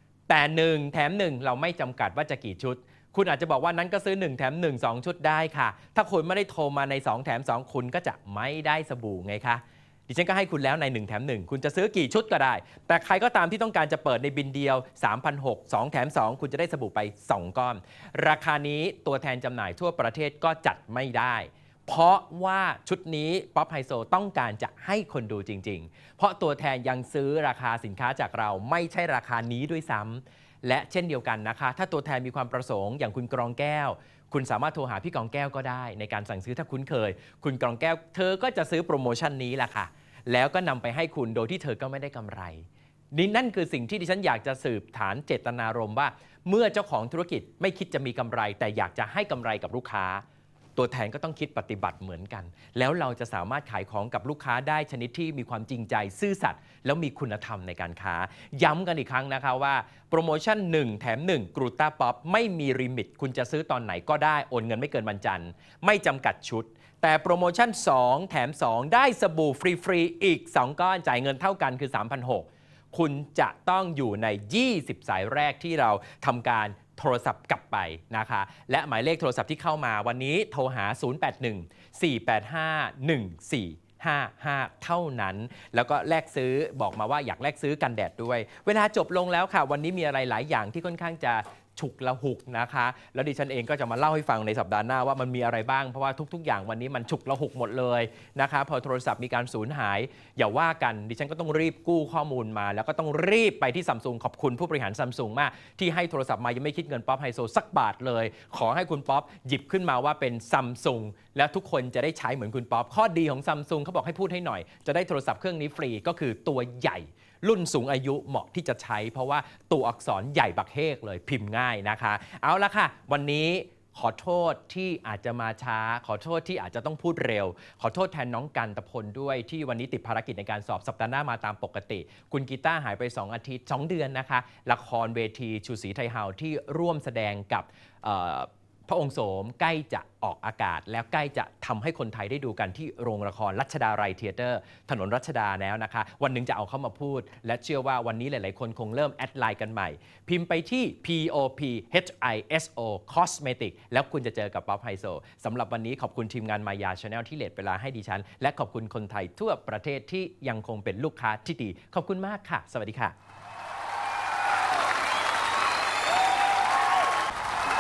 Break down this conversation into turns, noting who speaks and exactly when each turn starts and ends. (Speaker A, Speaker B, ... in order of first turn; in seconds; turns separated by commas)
Speaker A: 0.3-50.2, Speaker A: 50.8-163.2